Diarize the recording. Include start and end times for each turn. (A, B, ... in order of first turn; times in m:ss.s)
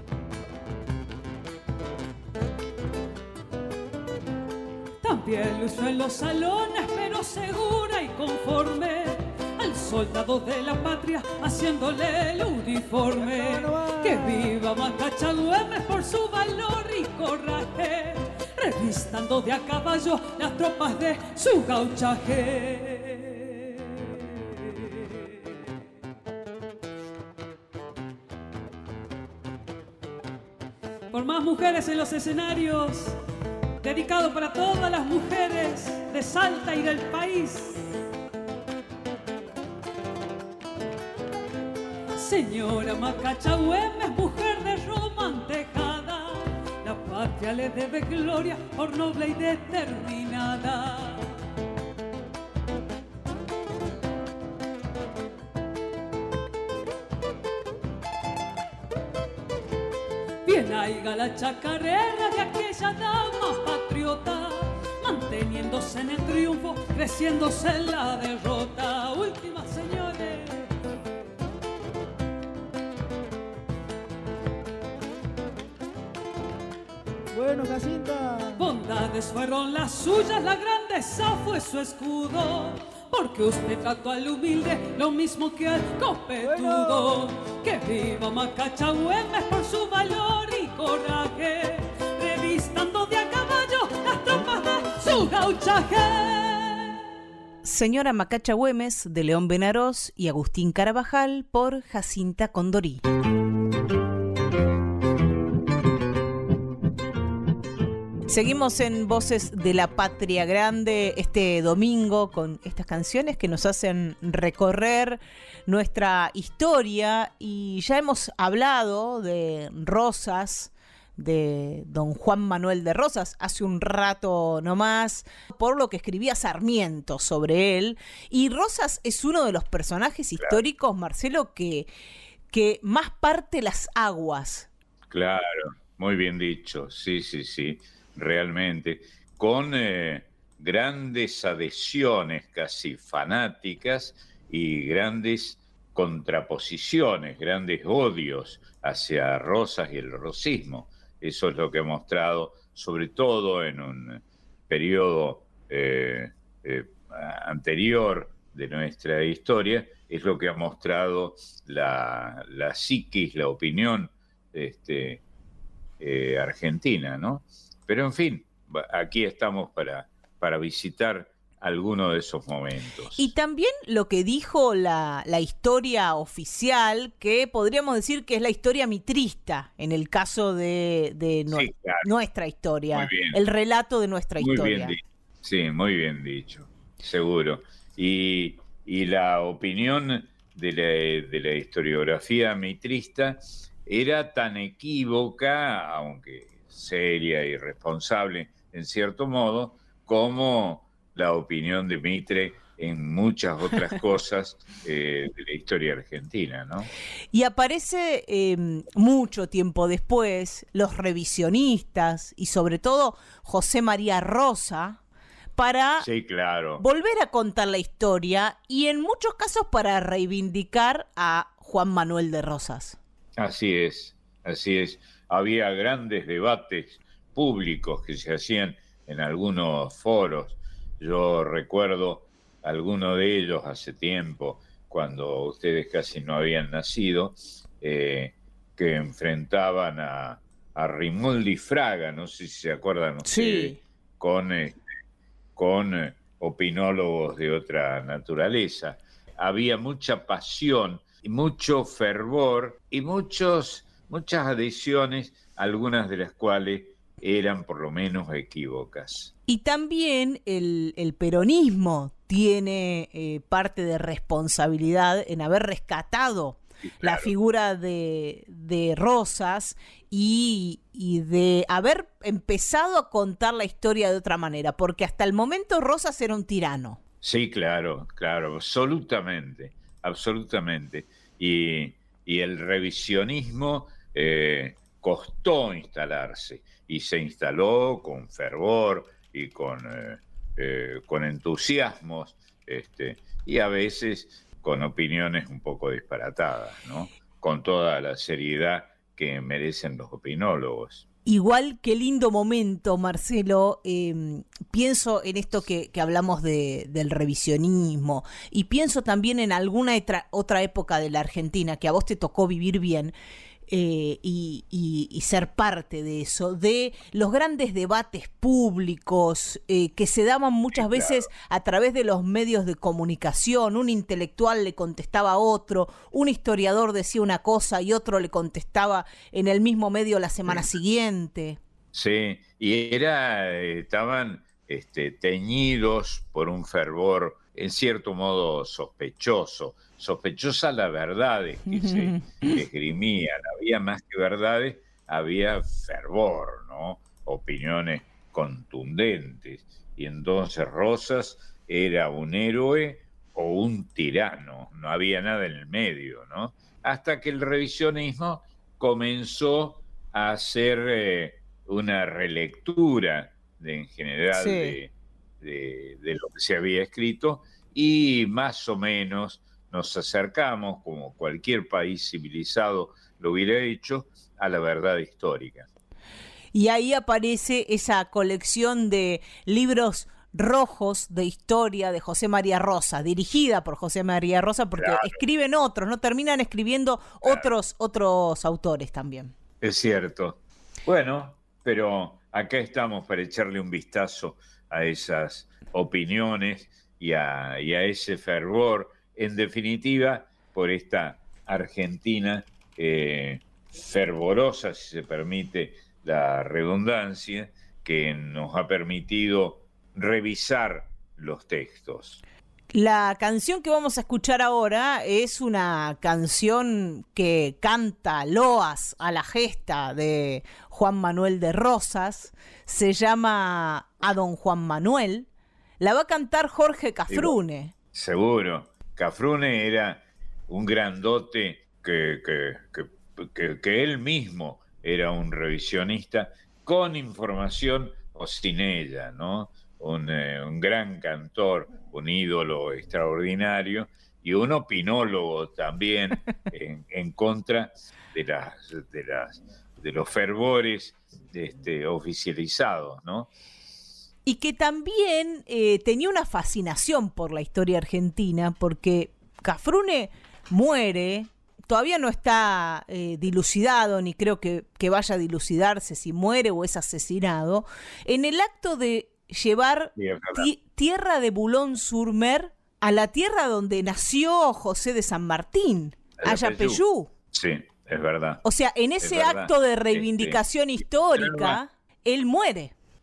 0:05.0-0:24.1 A
0:31.1-0:33.2 A
0:33.8-0:37.8 A
0:42.1-0:51.3 A
1:00.4-1:10.7 A
1:18.5-1:37.0 A
1:37.6-1:43.0 B
1:48.3-2:11.9 B
2:12.5-2:14.7 B
2:15.1-2:45.2 C
2:46.0-2:53.3 C
2:53.2-3:05.0 B
3:01.5-3:02.1 C
3:02.9-3:03.4 C
3:04.4-3:26.9 C
3:27.3-3:35.0 B
3:35.6-3:36.1 B
3:36.0-3:36.8 C
3:36.8-3:43.0 B
3:43.4-4:04.8 C
4:03.2-4:03.8 B
4:05.6-4:19.3 C
4:19.5-4:37.0 B
4:26.8-4:27.3 C
4:37.2-5:01.0 C
5:01.2-5:13.1 B
5:13.7-5:31.6 B
5:20.7-5:21.3 C
5:31.9-6:15.7 C
5:41.7-5:42.3 B
6:04.3-6:04.8 B
6:16.5-6:29.3 B
6:24.8-6:25.2 C
6:27.2-6:27.5 C
6:29.6-6:52.2 C
6:52.7-7:05.3 B
7:05.8-7:07.7 B
7:07.1-7:07.4 C
7:07.9-7:33.3 C
7:34.3-7:57.1 B
7:50.0-7:50.5 C
7:56.2-7:58.4 C
7:58.4-8:02.7 B
7:59.0-8:00.4 C
8:01.1-8:01.6 C